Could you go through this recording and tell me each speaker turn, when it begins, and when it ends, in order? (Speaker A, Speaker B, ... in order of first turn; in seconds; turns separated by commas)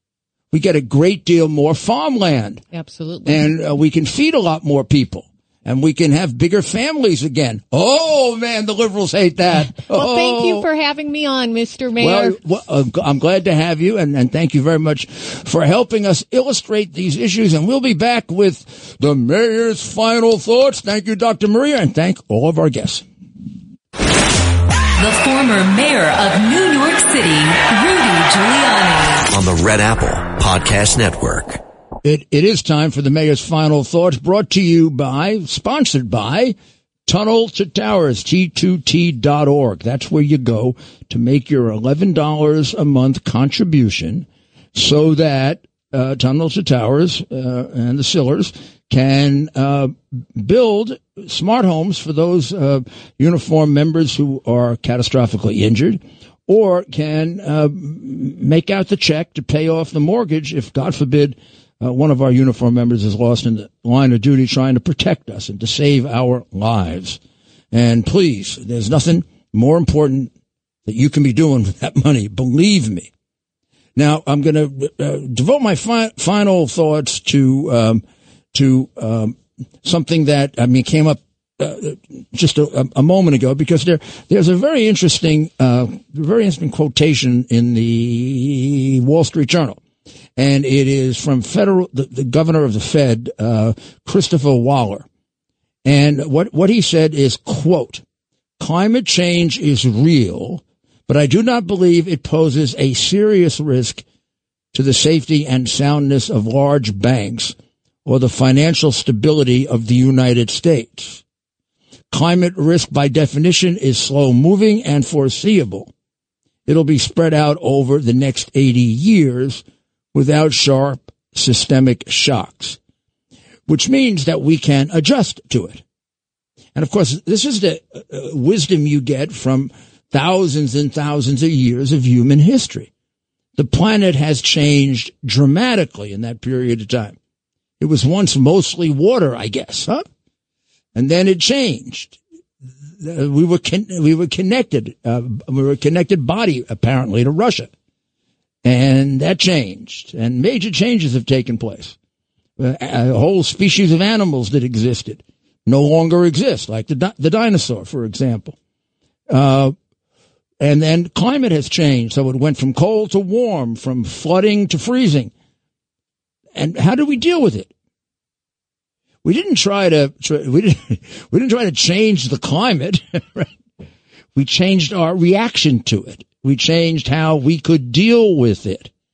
Speaker A: 0.5-2.6, Speaker B: 2.7-3.4, Speaker A: 3.2-10.7, Speaker B: 9.7-12.3, Speaker A: 12.0-23.0, Speaker C: 25.0-29.3, Speaker D: 29.3-31.6, Speaker A: 32.0-36.5, Speaker A: 37.1-67.2, Speaker A: 67.7-70.3, Speaker A: 70.8-73.1, Speaker A: 74.0-89.8, Speaker A: 90.3-95.0, Speaker A: 95.8-98.0, Speaker A: 98.6-104.0, Speaker A: 104.7-111.2, Speaker A: 112.1-115.9, Speaker A: 116.7-122.8, Speaker A: 123.7-125.8, Speaker A: 126.7-132.9, Speaker A: 133.6-137.2, Speaker A: 137.8-140.1, Speaker A: 140.9-142.2, Speaker A: 143.0-147.7, Speaker A: 148.6-151.9, Speaker A: 152.6-158.6, Speaker A: 159.3-159.7, Speaker A: 160.6-165.3, Speaker A: 166.5-167.7, Speaker A: 169.2-173.5, Speaker A: 174.3-178.9